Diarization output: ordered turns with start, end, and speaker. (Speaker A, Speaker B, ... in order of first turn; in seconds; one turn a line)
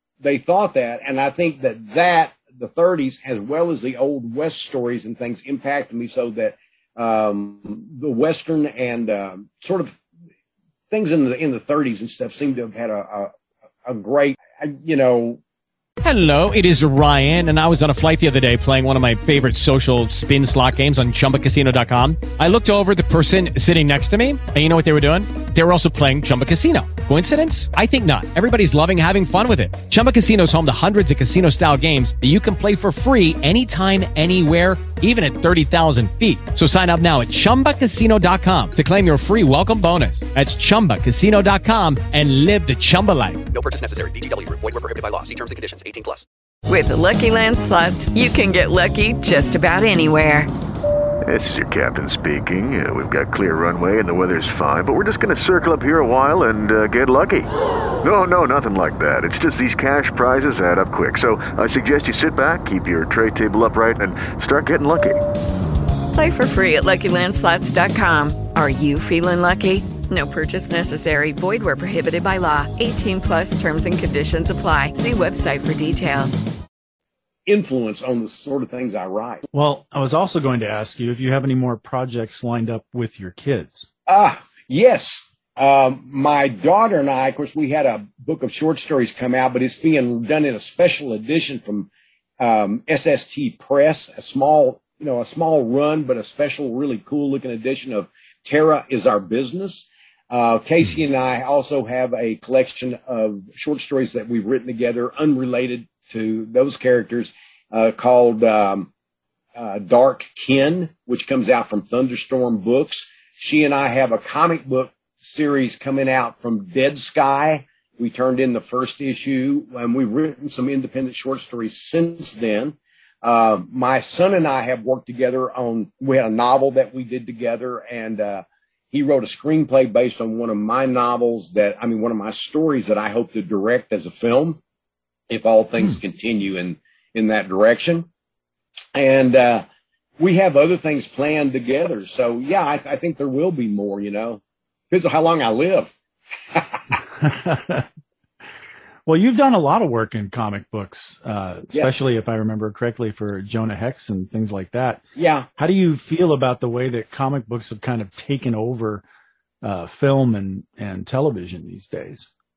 Speaker A: 0.2-9.9
Speaker A: 10.9-13.3
Speaker A: 13.8-15.4
Speaker B: 16.0-43.4
Speaker C: 43.5-46.2
Speaker D: 46.7-50.5
Speaker E: 51.2-65.2
Speaker D: 66.1-76.4
Speaker A: 77.5-79.4
Speaker F: 79.5-83.9
Speaker A: 84.1-91.9
Speaker A: 92.4-108.9
Speaker A: 109.5-134.6
Speaker A: 135.3-138.1
Speaker A: 138.9-139.6
Speaker A: 140.2-145.9
Speaker A: 146.5-146.8
Speaker F: 147.2-147.8
Speaker F: 149.1-155.0
Speaker A: 155.2-155.4
Speaker F: 155.6-159.0
Speaker F: 159.6-162.3